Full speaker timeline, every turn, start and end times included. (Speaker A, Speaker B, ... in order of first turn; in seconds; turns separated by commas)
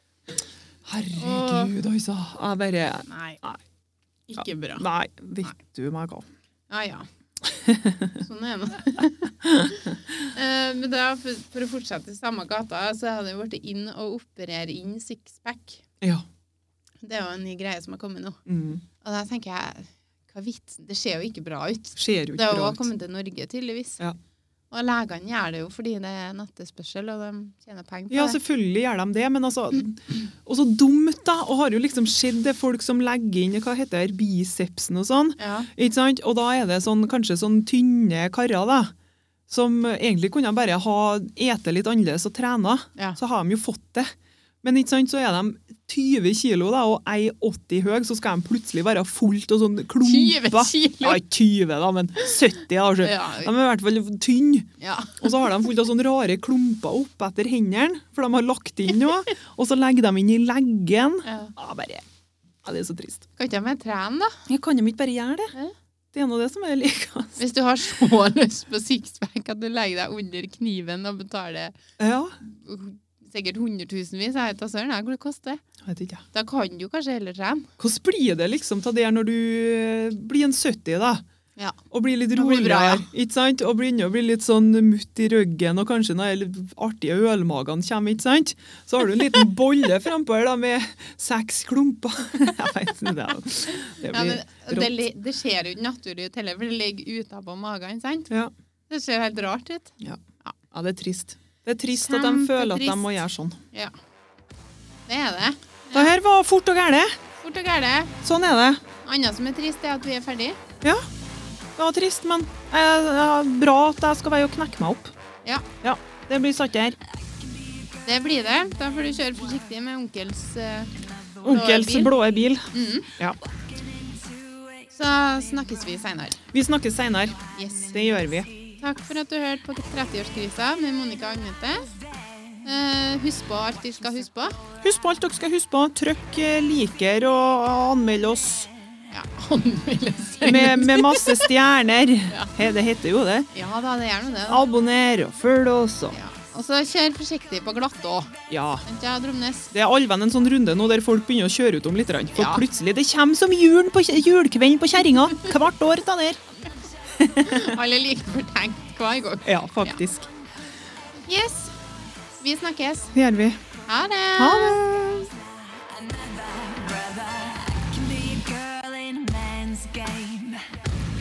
Speaker A: 0.8-3.6, Speaker B: 1.2-1.8, Speaker B: 3.1-3.4, Speaker B: 4.3-4.9, Speaker A: 4.4-6.3, Speaker B: 6.7-7.1, Speaker A: 7.5-8.2, Speaker B: 8.2-9.2, Speaker A: 9.4-9.9, Speaker B: 9.7-15.8, Speaker B: 17.0-18.4, Speaker A: 18.5-18.8, Speaker B: 19.0-24.0, Speaker A: 22.0-22.9, Speaker B: 24.7-28.4, Speaker A: 28.1-38.9, Speaker B: 35.4-35.7, Speaker A: 39.5-44.1, Speaker A: 44.6-62.0, Speaker B: 50.0-51.2, Speaker B: 53.0-53.5, Speaker B: 54.8-55.2, Speaker B: 61.2-61.5, Speaker A: 62.6-63.2, Speaker B: 63.4-64.4, Speaker A: 64.5-65.5, Speaker A: 66.1-67.4, Speaker B: 67.4-71.8, Speaker A: 72.0-72.3, Speaker B: 72.4-75.6, Speaker A: 75.8-76.2, Speaker B: 76.3-77.7, Speaker A: 77.8-81.2, Speaker A: 81.9-95.0, Speaker B: 82.3-83.1, Speaker B: 93.7-98.3, Speaker B: 98.9-100.6, Speaker A: 100.0-103.6, Speaker B: 101.9-103.2, Speaker B: 105.1-106.1, Speaker A: 105.9-107.2, Speaker B: 107.4-108.1, Speaker A: 108.2-108.8, Speaker B: 109.0-110.6, Speaker A: 111.8-115.1, Speaker A: 115.8-117.0, Speaker C: 117.3-118.0, Speaker B: 118.0-122.2, Speaker A: 121.4-123.4, Speaker B: 122.7-123.1, Speaker C: 123.7-124.9, Speaker B: 124.9-126.4, Speaker A: 126.5-128.5, Speaker B: 127.5-128.0, Speaker B: 128.8-131.9, Speaker C: 132.2-132.6, Speaker B: 132.7-134.6, Speaker A: 134.8-138.7, Speaker B: 139.1-141.5, Speaker A: 140.4-143.5, Speaker B: 143.5-144.6, Speaker A: 144.5-146.2, Speaker B: 146.1-149.7, Speaker A: 148.5-148.8, Speaker A: 149.7-156.4, Speaker B: 152.4-152.6, Speaker A: 157.2-157.8, Speaker B: 157.4-160.0, Speaker A: 159.4-160.3, Speaker B: 161.3-161.8, Speaker B: 162.4-163.1, Speaker A: 163.1-163.6, Speaker B: 163.9-164.8, Speaker A: 164.4-165.3, Speaker C: 165.7-170.7